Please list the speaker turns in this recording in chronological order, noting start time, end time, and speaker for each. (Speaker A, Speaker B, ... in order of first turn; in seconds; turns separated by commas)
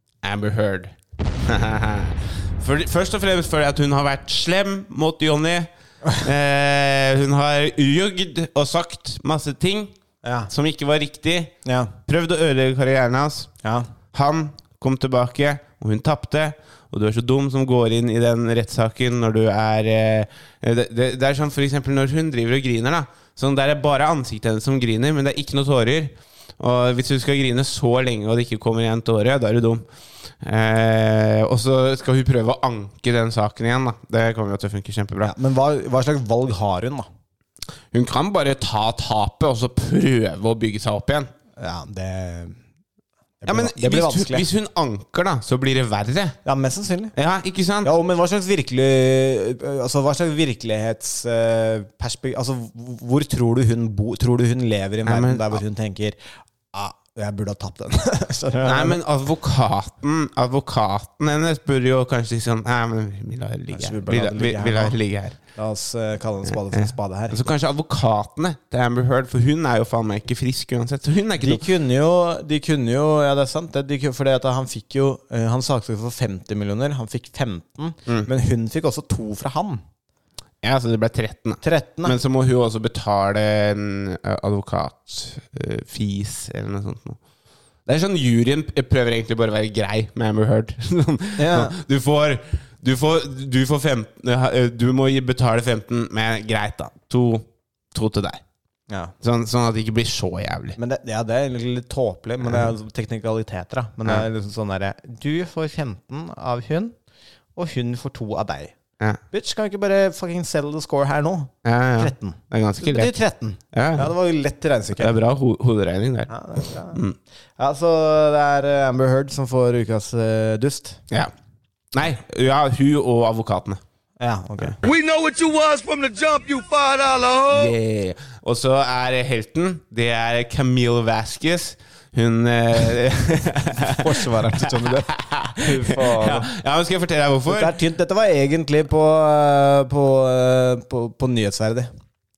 Speaker A: 0.2-9.9, Speaker B: 10.2-10.5, Speaker A: 10.5-11.5, Speaker B: 11.6-11.9, Speaker A: 12.1-13.5, Speaker A: 14.1-29.8, Speaker A: 30.4-35.3, Speaker B: 35.2-37.0, Speaker A: 37.9-41.3, Speaker B: 41.6-42.6, Speaker B: 43.4-44.5, Speaker A: 43.5-46.4, Speaker B: 46.4-47.1, Speaker A: 47.1-47.9, Speaker B: 47.8-56.2, Speaker A: 55.0-55.6, Speaker B: 56.7-59.0, Speaker A: 58.6-65.4, Speaker B: 63.7-65.0, Speaker B: 65.5-67.4, Speaker A: 66.5-71.6, Speaker B: 71.4-79.8, Speaker A: 80.6-87.2, Speaker B: 81.6-82.1, Speaker A: 87.8-98.4, Speaker B: 91.4-91.8, Speaker A: 99.2-100.8, Speaker B: 100.8-106.9, Speaker A: 102.4-102.7, Speaker B: 107.5-108.7, Speaker B: 109.3-115.1, Speaker A: 111.6-113.1, Speaker A: 113.7-114.1, Speaker A: 115.0-116.3, Speaker B: 116.3-117.0, Speaker A: 116.9-117.2, Speaker B: 117.6-121.0, Speaker A: 121.9-123.8, Speaker B: 124.2-124.8, Speaker C: 124.9-127.4, Speaker A: 127.4-137.7, Speaker B: 133.8-136.5, Speaker B: 137.5-141.9